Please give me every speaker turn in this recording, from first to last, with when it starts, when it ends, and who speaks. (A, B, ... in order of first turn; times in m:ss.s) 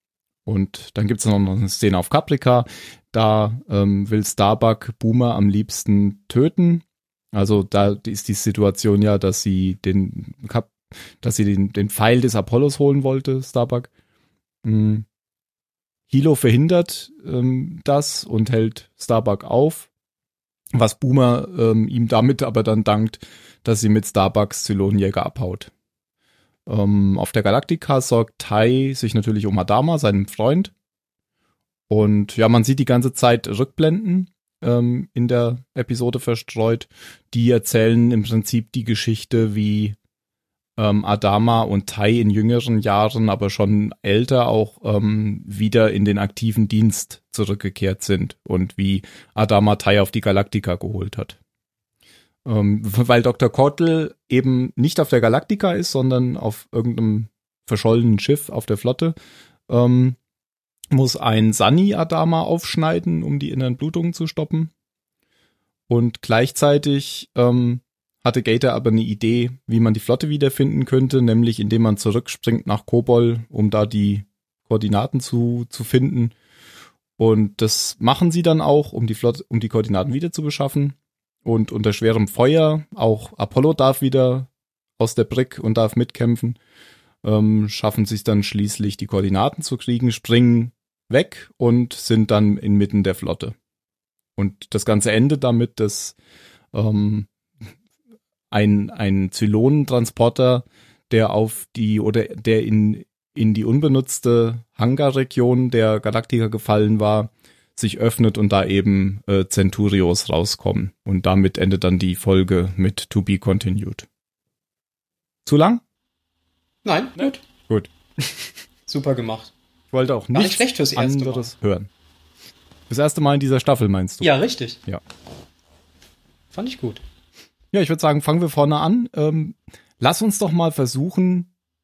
0:00.4-0:13.9 A
0:14.6-0:15.0 A
0:16.1-0:19.9 A
0:20.7-0:25.7 A
0:26.7-0:30.7 A
0:31.9-0:40.0 A
0:40.8-0:51.4 A
0:52.4-0:59.1 A
0:59.7-1:00.2 A
1:00.9-1:04.7 A
1:05.9-1:16.3 A
1:17.2-1:26.6 A
1:27.2-1:33.5 A
1:34.4-1:36.2 A
1:36.7-1:37.3 A
1:38.5-1:54.1 A
1:55.4-1:55.8 A
1:56.8-1:57.4 B
1:57.7-1:58.6 A
1:58.9-1:59.5 B
1:59.9-2:01.9 A
2:00.3-2:01.5 B
2:02.9-2:04.3 A
2:04.2-2:04.8 B
2:06.5-2:07.0 B
2:07.7-2:11.5 A